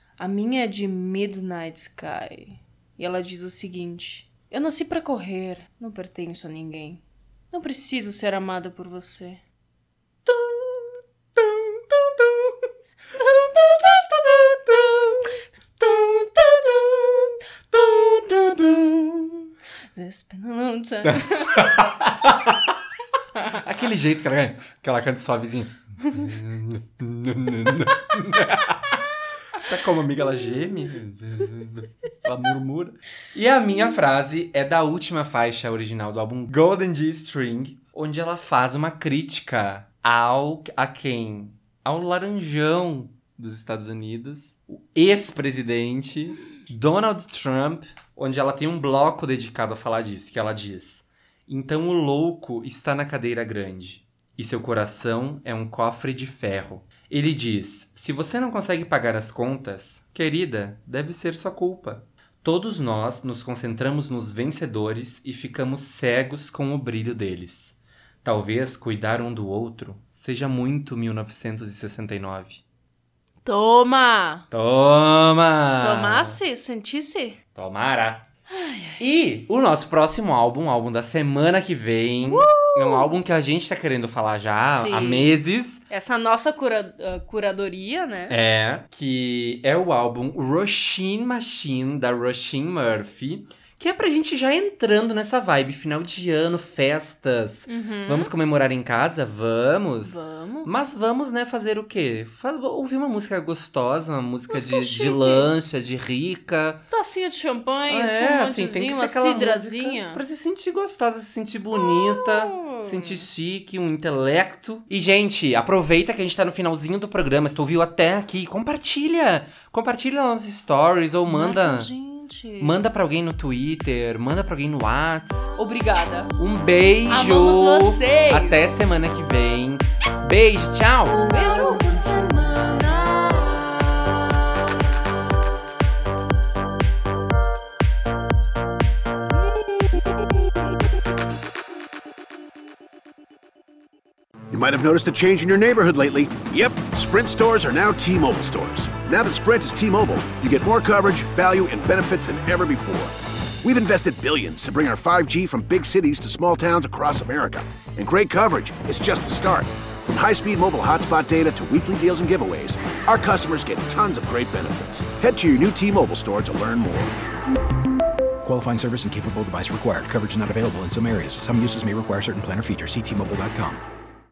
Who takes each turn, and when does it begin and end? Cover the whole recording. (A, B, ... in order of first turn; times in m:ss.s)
0:00.2-0:09.4 A
0:13.1-0:21.9 A
0:21.1-0:22.8 B
0:23.5-1:12.6 B
1:13.4-1:14.5 A
1:14.5-1:16.4 B
1:15.8-1:17.4 A
1:17.6-1:18.3 B
1:18.5-1:19.0 A
1:19.0-1:26.6 B
1:22.3-1:23.1 A
1:24.6-1:25.3 A
1:25.9-1:28.4 A
1:28.3-1:46.8 B
1:37.7-1:38.3 A
1:40.0-1:40.9 A
1:44.5-1:45.5 A
1:46.9-1:50.2 A
1:47.9-2:01.9 B
1:51.8-1:53.3 A
2:01.3-2:02.8 A
2:02.6-2:05.5 B
2:05.6-2:06.3 A
2:06.4-2:11.2 B
2:07.1-2:08.6 A
2:11.1-2:14.0 A
2:24.5-2:47.1 C
2:48.4-2:53.8 D